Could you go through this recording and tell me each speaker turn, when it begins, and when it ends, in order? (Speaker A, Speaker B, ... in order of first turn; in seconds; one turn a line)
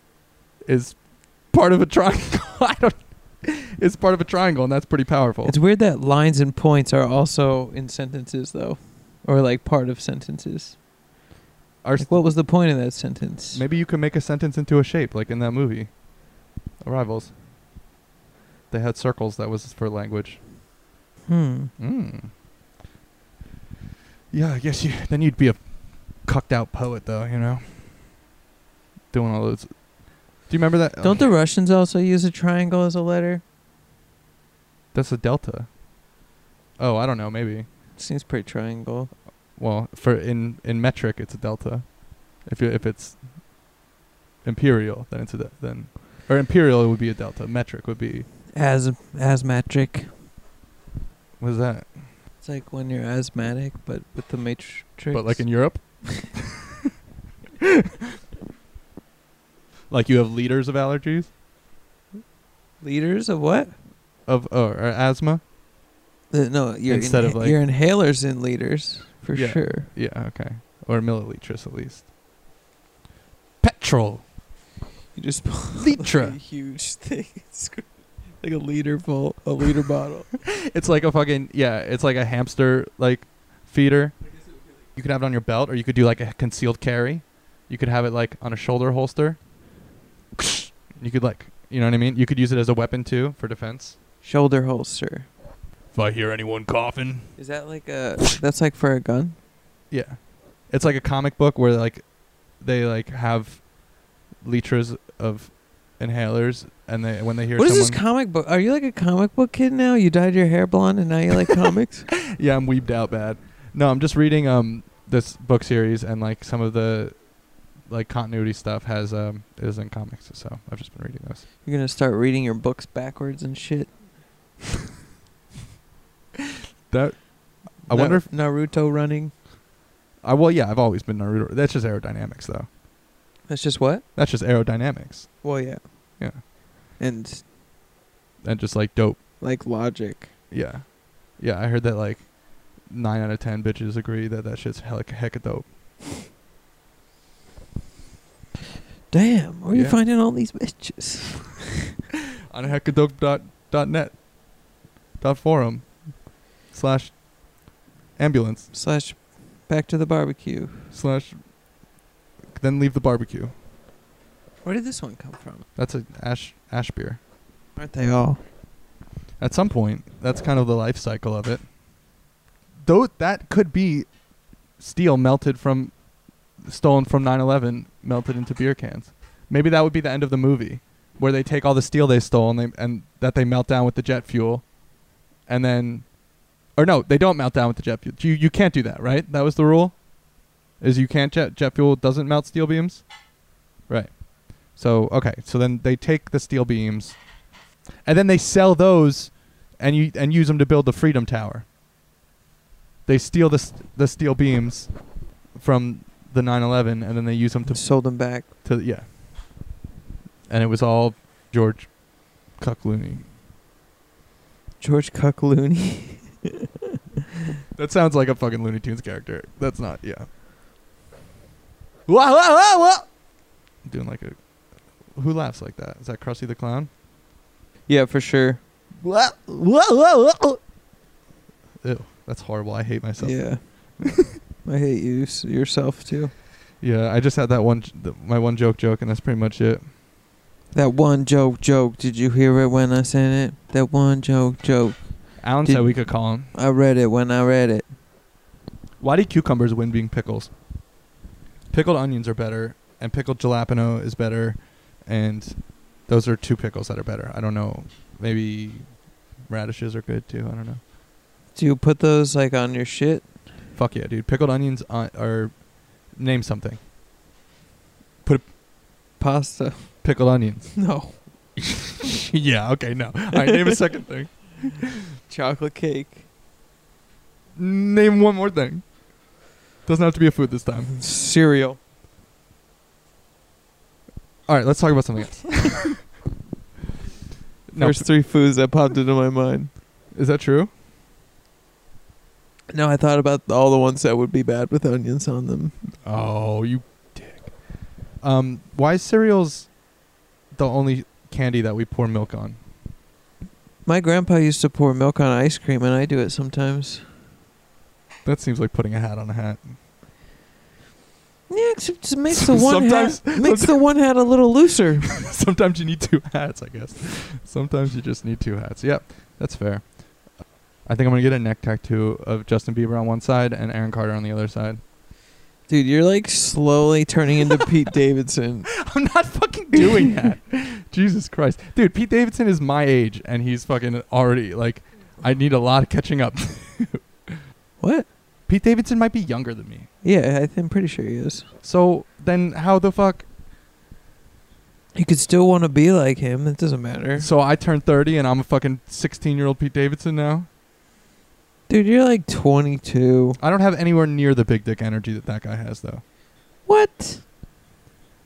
Speaker A: 0.7-5.5
Speaker B: 5.4-10.8
Speaker A: 11.8-12.3
Speaker B: 12.0-13.6
Speaker A: 13.5-15.9
Speaker A: 16.8-17.3
Speaker A: 18.7-20.4
Speaker B: 21.3-21.7
Speaker A: 21.8-22.3
Speaker A: 24.3-25.6
Speaker A: 26.2-27.8
Speaker A: 29.1-29.7
Speaker A: 30.4-31.3
Speaker B: 31.0-33.4
Speaker A: 34.9-35.7
Speaker A: 36.8-37.7
Speaker B: 38.0-39.1
Speaker A: 39.6-43.2
Speaker A: 44.4-48.3
Speaker B: 48.5-50.1
Speaker A: 51.4-51.9
Speaker B: 52.4-56.1
Speaker A: 55.1-56.6
Speaker A: 57.6-57.9
Speaker A: 59.9-61.3
Speaker B: 62.8-63.8
Speaker A: 64.3-65.4
Speaker B: 66.3-69.9
Speaker A: 66.9-67.6
Speaker A: 69.3-72.1
Speaker A: 73.6-74.2
Speaker B: 75.2-80.3
Speaker A: 75.8-76.4
Speaker A: 80.5-84.2
Speaker A: 85.0-89.4
Speaker A: 90.4-94.0
Speaker B: 94.2-95.3
Speaker A: 95.9-97.3
Speaker B: 97.4-99.4
Speaker A: 99.9-102.1
Speaker A: 102.6-103.7
Speaker A: 104.4-108.0
Speaker B: 107.6-112.1
Speaker A: 112.3-117.2
Speaker A: 117.9-121.4
Speaker B: 121.7-123.9
Speaker A: 126.9-128.3
Speaker B: 127.9-129.3
Speaker A: 130.2-132.7
Speaker B: 133.5-134.1
Speaker A: 134.2-135.4
Speaker B: 135.4-135.8
Speaker B: 137.0-137.4
Speaker A: 138.4-139.2
Speaker B: 139.4-140.3
Speaker A: 140.5-142.3
Speaker A: 142.8-145.7
Speaker B: 149.1-151.9
Speaker A: 149.7-150.0
Speaker A: 152.5-154.2
Speaker A: 155.2-157.2
Speaker A: 158.2-158.7
Speaker B: 158.7-160.9
Speaker A: 160.9-161.4
Speaker A: 162.6-163.5
Speaker B: 164.6-165.6
Speaker A: 165.8-167.2
Speaker B: 167.8-168.4
Speaker A: 169.4-171.6
Speaker A: 172.8-174.1
Speaker A: 174.8-176.0
Speaker A: 176.6-184.7
Speaker A: 185.5-186.2
Speaker A: 186.8-190.1
Speaker A: 190.8-193.1
Speaker A: 193.9-197.2
Speaker A: 198.1-201.7
Speaker A: 203.1-204.9
Speaker A: 205.5-209.1
Speaker B: 207.7-208.5
Speaker A: 210.5-213.3
Speaker B: 214.8-216.7
Speaker A: 217.8-220.3
Speaker A: 222.1-223.1
Speaker A: 223.8-224.4
Speaker A: 225.2-226.9
Speaker B: 227.9-228.6
Speaker A: 229.0-230.6
Speaker A: 231.8-233.5
Speaker B: 233.2-233.6
Speaker A: 234.0-234.3
Speaker B: 234.7-236.3
Speaker A: 236.8-239.8
Speaker B: 240.7-245.0
Speaker A: 245.4-246.5
Speaker B: 245.6-245.9
Speaker B: 246.5-247.9
Speaker A: 249.0-250.5
Speaker A: 251.7-258.9
Speaker A: 259.5-260.8
Speaker B: 261.6-263.3
Speaker A: 263.8-265.6
Speaker A: 266.1-266.8
Speaker B: 269.2-269.9
Speaker A: 270.0-270.7
Speaker B: 270.7-271.2
Speaker A: 271.9-275.1
Speaker B: 273.4-273.8
Speaker B: 275.3-276.2
Speaker A: 277.6-278.9
Speaker A: 279.9-280.9
Speaker B: 280.9-281.8
Speaker A: 284.5-286.0
Speaker A: 287.7-288.1
Speaker B: 287.8-289.7
Speaker A: 290.1-290.7
Speaker B: 292.7-295.8
Speaker A: 296.0-297.5
Speaker A: 298.2-299.7
Speaker A: 300.6-302.6
Speaker B: 303.9-307.1
Speaker A: 308.2-309.7
Speaker B: 311.5-315.1
Speaker A: 312.3-313.9
Speaker A: 315.1-319.9
Speaker A: 320.9-324.8
Speaker B: 325.7-328.8
Speaker A: 328.7-337.4
Speaker B: 329.7-330.2
Speaker B: 337.8-338.1
Speaker A: 338.5-339.9
Speaker B: 340.0-341.5
Speaker A: 341.6-343.2
Speaker B: 344.9-347.3
Speaker A: 347.2-350.5
Speaker B: 351.7-353.4
Speaker A: 353.4-356.0
Speaker B: 356.7-357.2